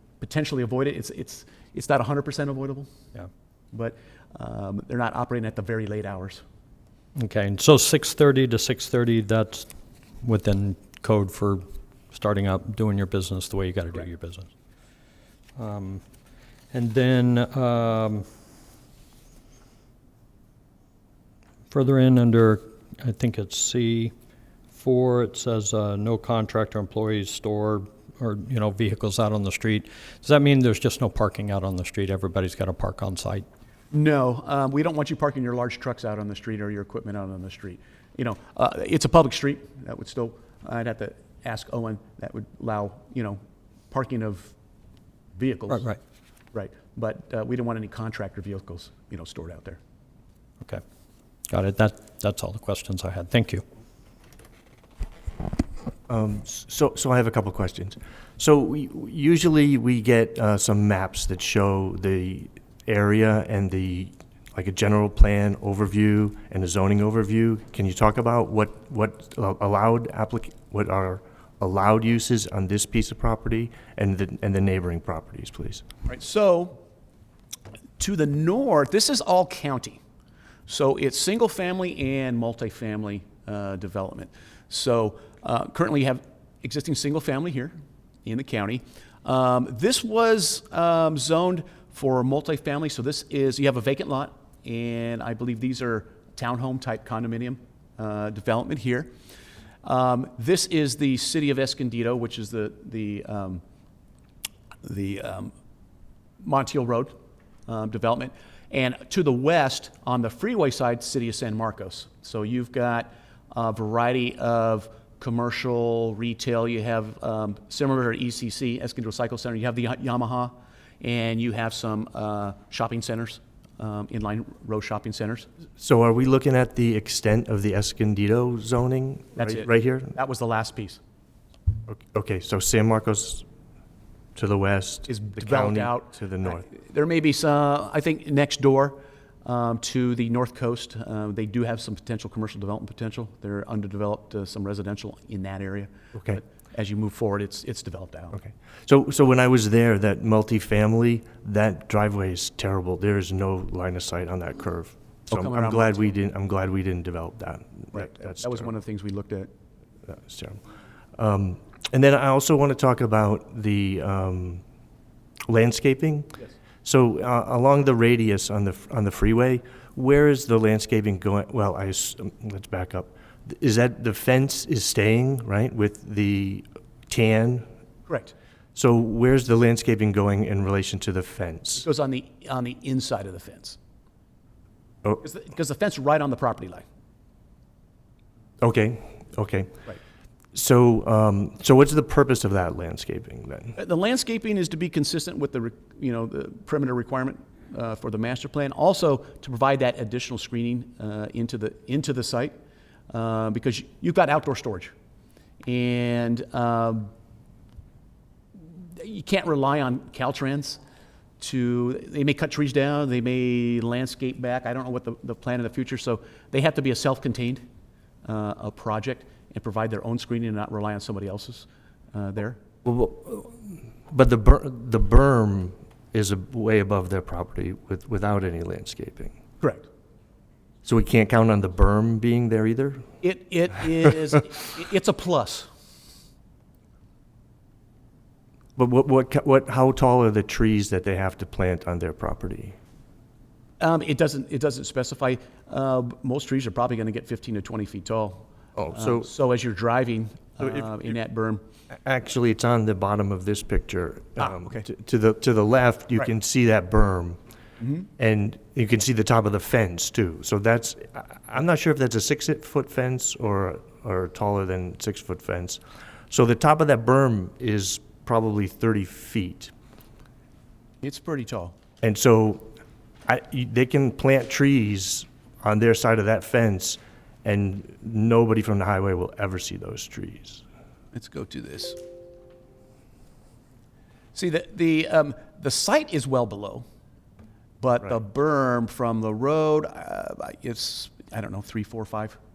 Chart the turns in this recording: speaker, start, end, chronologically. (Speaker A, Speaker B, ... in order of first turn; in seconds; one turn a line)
Speaker A: 0.2-2.9
Speaker A: 3.7-6.4
Speaker B: 7.2-9.7
Speaker B: 10.2-14.5
Speaker B: 15.6-16.0
Speaker B: 16.7-18.2
Speaker B: 21.7-24.1
Speaker B: 24.7-33.5
Speaker A: 33.9-43.4
Speaker A: 43.9-44.5
Speaker A: 45.4-45.9
Speaker B: 45.7-46.0
Speaker A: 46.5-49.8
Speaker B: 51.5-53.6
Speaker C: 56.1-75.8
Speaker A: 76.0-76.8
Speaker A: 78.0-80.0
Speaker A: 80.7-99.1
Speaker A: 99.8-103.6
Speaker A: 104.8-105.5
Speaker A: 106.4-125.5
Speaker C: 125.8-130.2
Speaker A: 129.4-131.0
Speaker C: 131.9-133.4
Speaker C: 134.4-136.7
Speaker A: 135.1-148.4
Speaker C: 148.4-158.7
Speaker A: 155.3-156.1
Speaker A: 157.9-159.5
Speaker C: 160.1-160.6
Speaker C: 161.2-164.6
Speaker C: 165.5-177.7
Speaker A: 178.1-178.3
Speaker C: 178.8-181.9
Speaker A: 181.8-183.8
Speaker A: 185.2-186.8
Speaker C: 188.6-189.8
Speaker C: 190.5-193.8
Speaker A: 193.8-202.6
Speaker A: 203.1-204.9
Speaker A: 205.7-207.1
Speaker A: 208.9-210.8
Speaker A: 211.4-217.7
Speaker A: 218.2-222.6
Speaker C: 222.8-229.4
Speaker A: 229.6-229.9
Speaker C: 230.8-233.1
Speaker A: 233.2-235.7
Speaker C: 238.8-242.8
Speaker A: 243.8-251.6
Speaker C: 248.8-249.3
Speaker C: 252.0-257.4
Speaker A: 254.4-254.8
Speaker C: 258.2-269.7
Speaker A: 271.0-271.8
Speaker C: 272.0-272.7
Speaker C: 273.3-280.6
Speaker A: 281.1-282.0
Speaker A: 284.3-286.9
Speaker A: 287.8-292.4